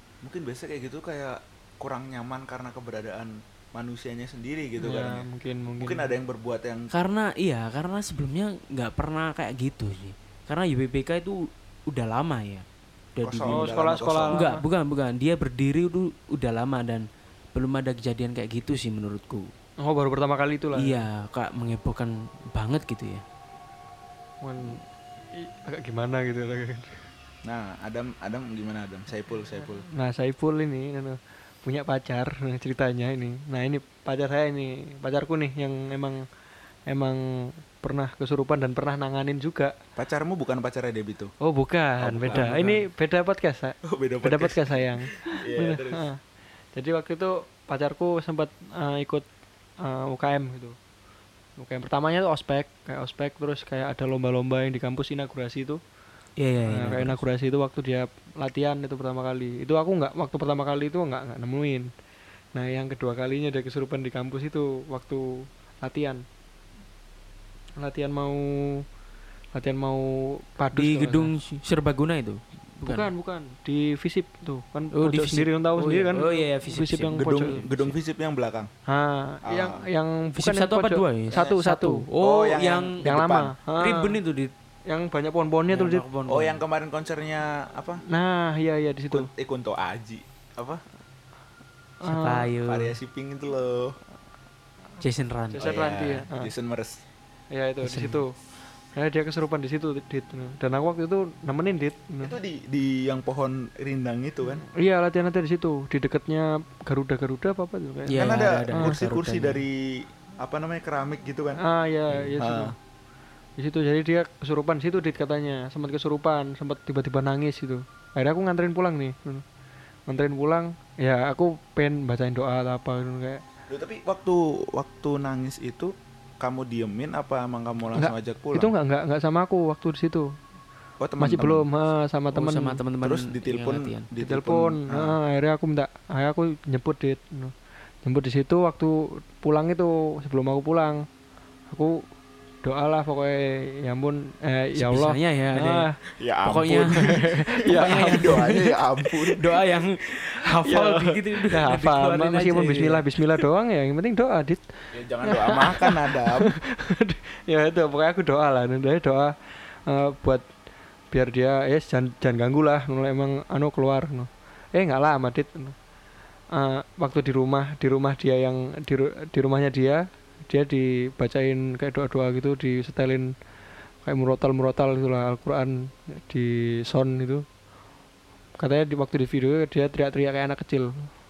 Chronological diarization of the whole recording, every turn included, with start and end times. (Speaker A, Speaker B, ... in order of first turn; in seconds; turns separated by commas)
Speaker A: 0.2-5.2, Speaker B: 4.8-6.1, Speaker A: 5.8-6.9, Speaker C: 6.9-13.7, Speaker A: 13.2-14.5, Speaker B: 13.5-14.6, Speaker C: 14.3-19.5, Speaker B: 19.8-21.0, Speaker C: 20.8-23.2, Speaker B: 24.4-24.8, Speaker B: 25.3-27.0, Speaker A: 27.5-29.9, Speaker B: 29.9-36.2, Speaker B: 36.9-39.8, Speaker A: 40.0-41.3, Speaker B: 41.4-46.2, Speaker A: 42.0-42.9, Speaker A: 43.8-46.0, Speaker B: 46.7-49.2, Speaker B: 49.8-50.8, Speaker B: 51.6-55.8, Speaker C: 56.4-57.2, Speaker B: 56.7-61.9, Speaker B: 62.5-66.2, Speaker B: 67.8-68.8, Speaker B: 69.5-71.3, Speaker C: 70.7-73.1, Speaker B: 72.8-77.6, Speaker C: 74.9-77.9, Speaker A: 77.2-78.7, Speaker B: 78.9-82.0, Speaker A: 79.5-79.8, Speaker C: 80.3-83.0, Speaker A: 81.3-81.6, Speaker A: 82.2-83.5, Speaker B: 83.0-84.2, Speaker C: 83.8-84.5, Speaker B: 84.9-86.0, Speaker C: 85.7-86.6, Speaker A: 86.3-88.0, Speaker B: 88.1-89.3, Speaker A: 89.1-90.8, Speaker B: 92.0-92.5, Speaker C: 92.0-92.9, Speaker A: 92.7-94.0, Speaker C: 95.0-95.9, Speaker B: 95.5-96.5, Speaker A: 95.6-96.9, Speaker B: 97.5-98.3, Speaker C: 97.8-98.2, Speaker B: 98.9-102.3, Speaker A: 102.2-104.6, Speaker B: 104.6-109.0, Speaker C: 108.1-109.6, Speaker A: 108.1-111.6, Speaker B: 111.6-112.7, Speaker A: 112.4-112.7, Speaker B: 113.6-119.4, Speaker B: 120.1-123.4, Speaker A: 123.7-128.7, Speaker B: 128.0-130.3, Speaker A: 131.0-131.7, Speaker B: 131.2-132.8, Speaker C: 132.3-134.1, Speaker A: 133.0-135.2, Speaker B: 134.2-141.0, Speaker B: 141.7-142.0, Speaker B: 142.6-145.9, Speaker C: 144.7-145.8, Speaker A: 146.1-149.6, Speaker C: 146.4-153.4, Speaker B: 146.9-148.6, Speaker B: 150.7-154.7, Speaker A: 154.9-156.5, Speaker B: 155.2-159.3, Speaker B: 159.9-160.4, Speaker B: 161.1-165.8, Speaker B: 166.5-173.3, Speaker B: 174.0-177.4, Speaker B: 178.6-181.1